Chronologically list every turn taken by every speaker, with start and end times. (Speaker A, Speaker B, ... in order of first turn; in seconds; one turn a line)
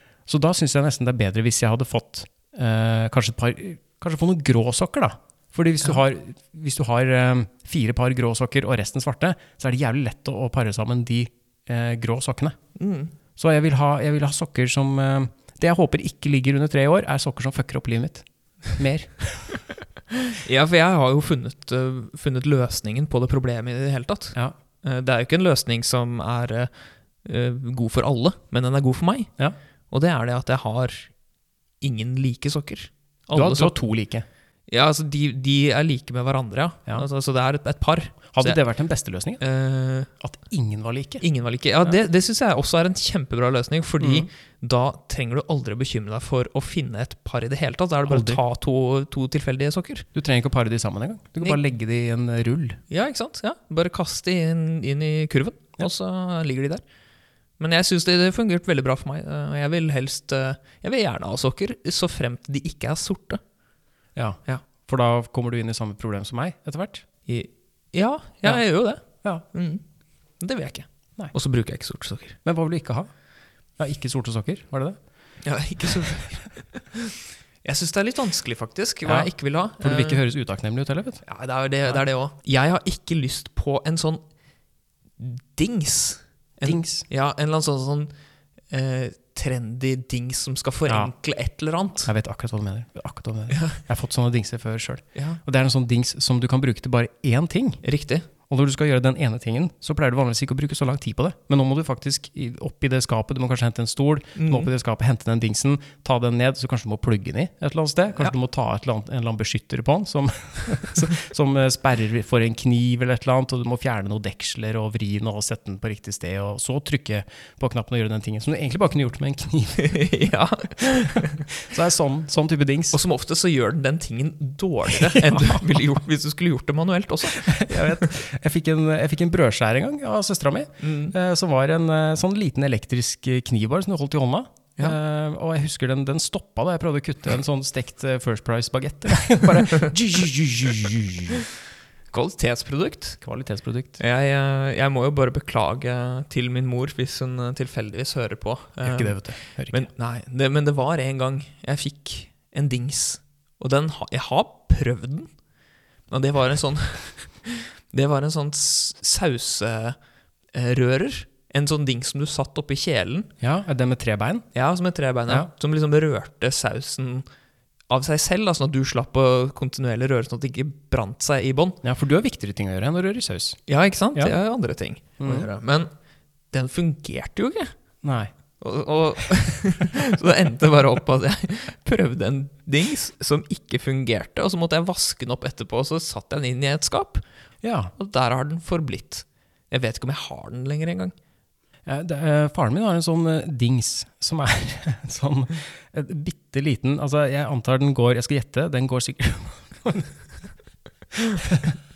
Speaker A: 0.3-12.6
Speaker B: 12.8-13.1
Speaker A: 13.4-19.6
Speaker B: 20.2-29.3
Speaker B: 29.9-31.1
Speaker B: 31.8-33.8
Speaker A: 33.3-34.2
Speaker B: 34.7-38.6
Speaker A: 38.3-39.4
Speaker B: 39.4-40.1
Speaker A: 40.2-41.2
Speaker B: 41.2-50.0
Speaker A: 44.0-44.3
Speaker A: 48.1-48.4
Speaker A: 50.1-52.8
Speaker B: 52.9-56.8
Speaker B: 57.6-63.4
Speaker A: 64.2-67.0
Speaker B: 67.3-69.8
Speaker A: 69.1-69.4
Speaker B: 70.4-72.4
Speaker A: 72.4-73.1
Speaker A: 73.8-75.0
Speaker B: 75.4-80.2
Speaker A: 75.8-76.1
Speaker A: 79.0-81.2
Speaker B: 81.2-84.2
Speaker B: 85.2-88.1
Speaker A: 86.6-87.0
Speaker B: 88.7-92.1
Speaker A: 90.9-91.1
Speaker A: 92.0-97.8
Speaker B: 93.5-93.8
Speaker B: 97.8-98.2
Speaker A: 98.5-120.1
Speaker B: 104.3-104.7
Speaker B: 119.8-121.5
Speaker A: 120.8-123.0
Speaker B: 122.9-128.1
Speaker A: 124.9-125.8
Speaker A: 127.3-141.4
Speaker B: 130.8-131.1
Speaker B: 142.1-143.2
Speaker A: 143.2-144.0
Speaker B: 144.0-155.3
Speaker A: 148.8-149.8
Speaker B: 156.1-160.0
Speaker B: 160.5-163.3
Speaker A: 163.4-164.4
Speaker B: 164.5-167.2
Speaker B: 167.9-171.8
Speaker A: 171.8-173.6
Speaker B: 173.7-175.9
Speaker A: 175.2-175.5
Speaker B: 176.5-177.8
Speaker A: 178.0-178.3
Speaker B: 178.6-187.2
Speaker A: 187.6-187.9
Speaker B: 187.9-191.1
Speaker A: 191.8-200.2
Speaker A: 201.4-201.8